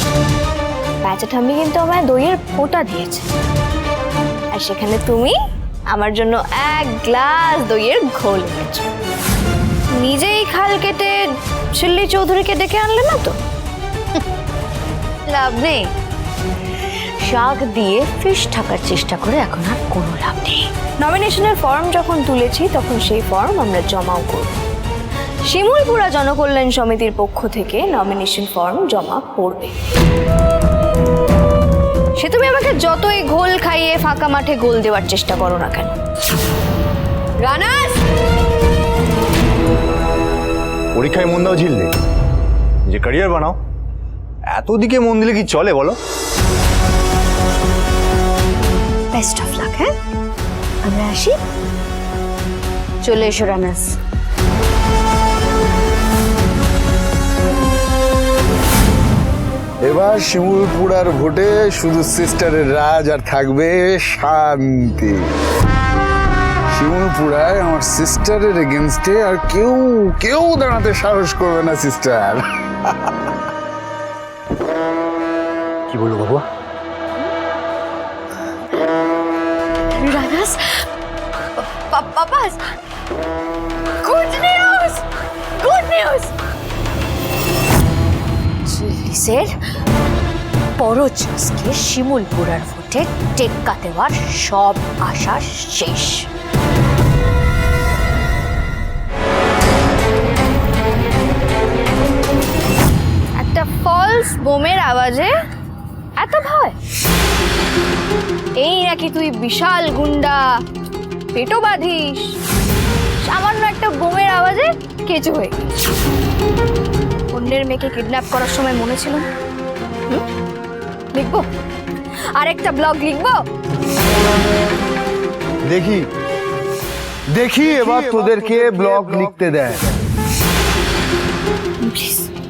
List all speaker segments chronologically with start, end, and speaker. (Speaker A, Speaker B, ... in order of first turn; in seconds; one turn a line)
Speaker A: 1.0-3.3
Speaker A: 4.5-5.4
Speaker A: 5.9-8.9
Speaker A: 10.0-11.2
Speaker A: 11.8-13.3
Speaker A: 15.3-15.9
Speaker B: 17.2-20.7
Speaker A: 21.0-24.6
Speaker A: 25.5-29.7
Speaker A: 32.2-36.0
Speaker A: 37.4-38.0
Speaker C: 41.0-41.9
Speaker C: 42.9-43.6
Speaker C: 44.5-46.0
Speaker B: 49.1-49.9
Speaker B: 50.8-51.4
Speaker A: 53.1-53.8
Speaker D: 59.8-65.3
Speaker D: 66.7-73.1
Speaker C: 75.9-76.5
Speaker A: 80.0-80.4
Speaker B: 80.2-80.5
Speaker A: 81.6-82.6
Speaker A: 84.0-85.0
Speaker A: 85.6-86.3
Speaker B: 88.7-89.5
Speaker B: 90.8-96.3
Speaker A: 103.4-105.3
Speaker A: 106.2-106.8
Speaker A: 108.6-110.4
Speaker A: 111.3-112.3
Speaker A: 113.2-115.6
Speaker A: 117.3-119.2
Speaker A: 121.1-121.5
Speaker A: 122.3-123.4
Speaker D: 127.5-129.6
Speaker C: 127.7-129.4
Speaker A: 131.8-132.3